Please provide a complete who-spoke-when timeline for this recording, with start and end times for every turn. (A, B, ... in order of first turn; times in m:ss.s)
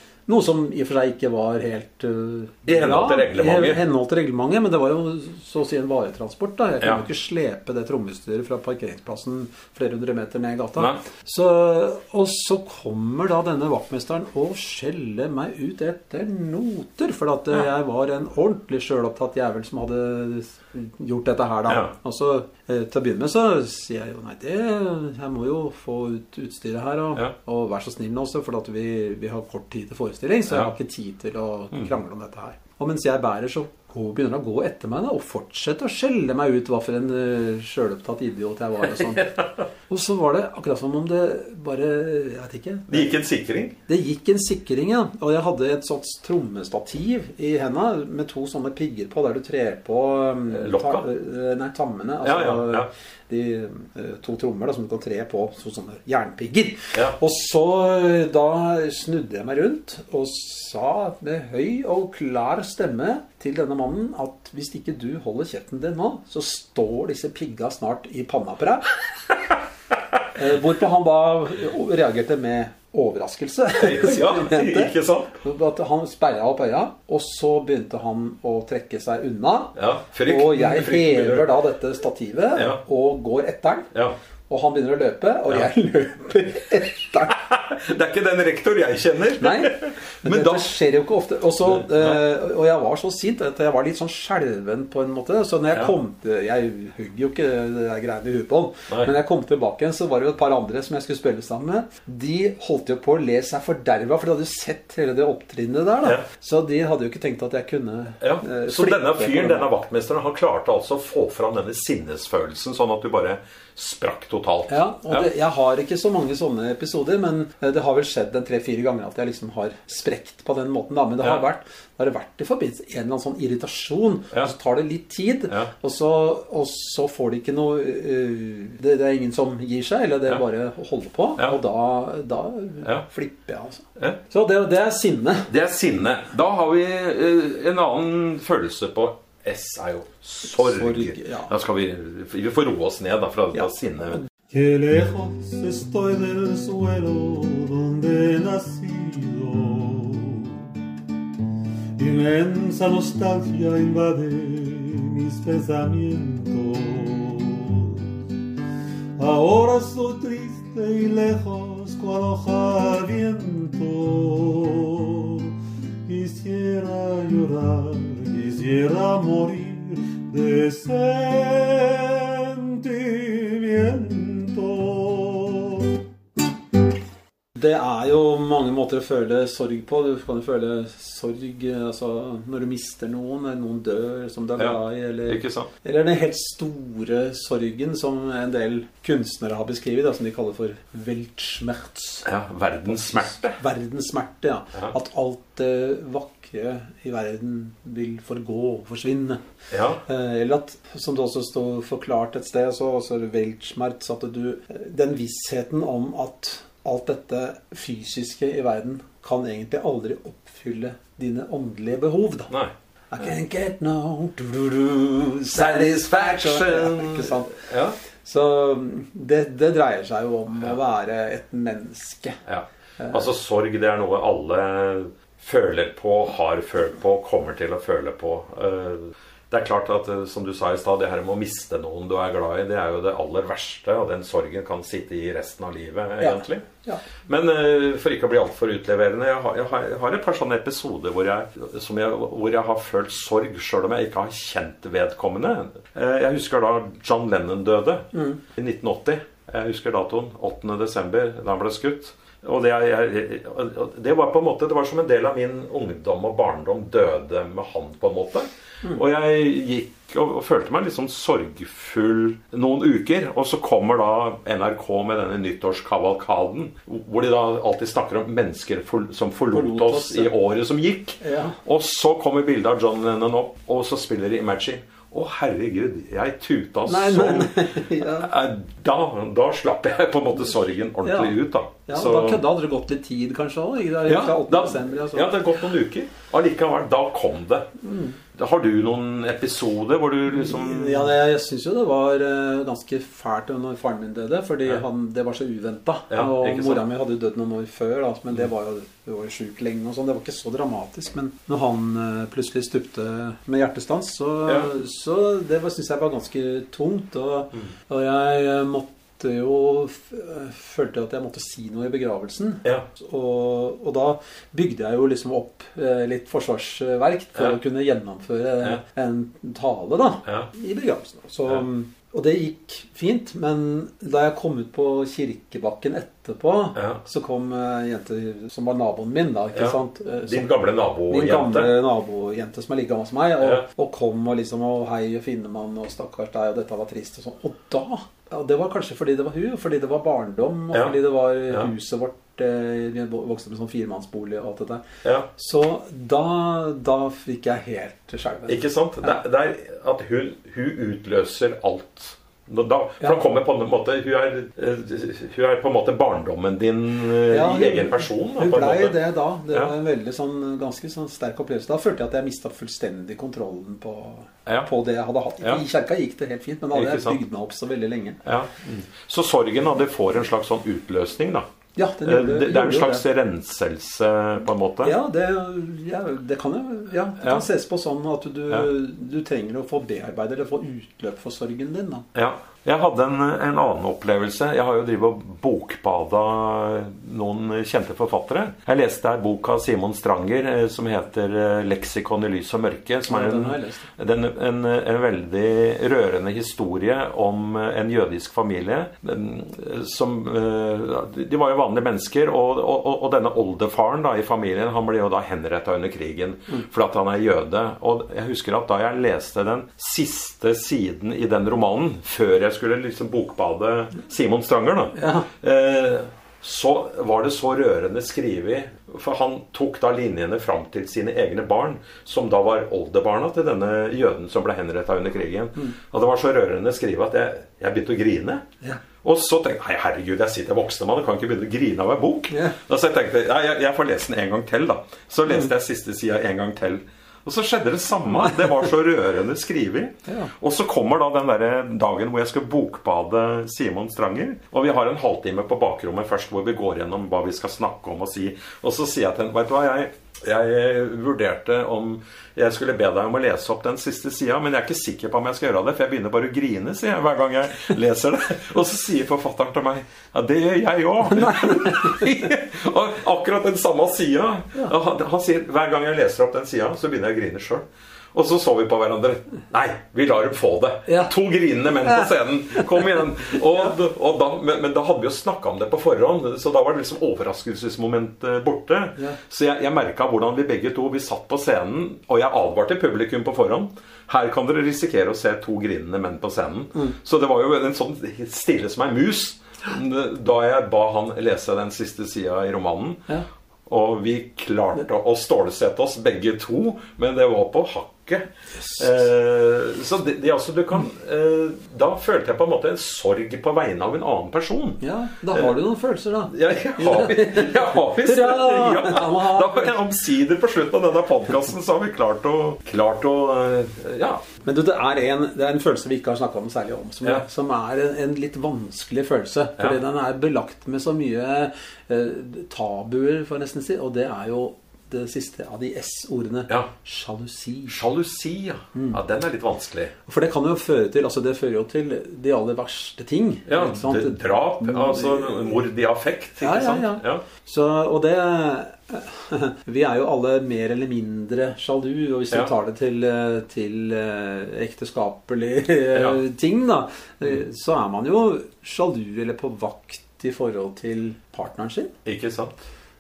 0:00.3-0:43.1 A
0:02.7-0:03.8 B
0:42.9-0:43.8 B
0:43.9-1:08.9 A
0:50.5-0:51.0 B
0:52.2-0:52.9 B
1:10.4-1:23.9 A
1:13.8-1:15.4 B
1:19.8-1:21.5 B
1:22.6-1:22.8 B
1:24.5-1:27.4 A
1:27.4-1:30.7 B
1:29.4-1:49.7 A
1:31.7-1:32.2 B
1:48.2-1:55.2 B
1:54.7-2:15.5 A
2:15.5-2:24.2 B
2:20.5-2:21.5 A
2:24.5-2:30.6 C
2:32.0-2:38.2 C
2:39.2-2:45.6 C
2:46.1-2:56.0 C
2:57.6-3:12.3 A
3:04.6-3:05.7 B
3:12.2-3:13.6 B
3:12.9-3:19.4 A
3:19.7-3:20.0 B
3:20.1-3:32.5 A
3:33.1-3:37.7 A
3:35.5-3:38.0 B
3:38.2-3:42.4 A
3:42.5-3:56.7 B
3:56.2-3:57.0 A
3:57.3-4:42.4 B
4:08.1-4:08.4 A
4:29.5-4:30.3 A
4:31.2-4:31.6 A
4:36.9-4:38.3 A
4:41.0-4:45.4 A
4:44.0-4:47.7 B
4:47.8-4:48.2 A
4:48.3-4:51.1 B
4:50.3-5:44.8 A
4:56.1-4:56.8 B
5:29.6-5:31.7 B
5:45.0-5:45.3 B
5:45.3-5:49.2 A
5:48.5-5:59.0 B
5:57.3-6:08.2 A
6:06.7-6:07.2 B
6:08.2-6:11.4 B
6:11.8-6:13.0 A
6:12.0-6:15.0 B
6:14.8-6:22.1 A
6:22.1-7:08.4 B
6:33.1-6:33.9 A
6:55.0-6:55.3 A
7:09.0-8:13.1 B
7:12.3-7:12.6 A
7:20.1-7:20.3 A
7:41.1-7:42.2 A
8:13.7-8:24.8 B
8:24.8-8:29.8 A
8:26.3-8:34.2 B
8:34.4-8:47.8 A
8:47.7-8:49.9 B
8:48.8-8:49.0 A
8:50.1-8:55.6 A
8:53.5-8:57.2 B
8:56.4-9:11.9 A
9:05.9-9:06.2 B
9:12.0-9:12.6 B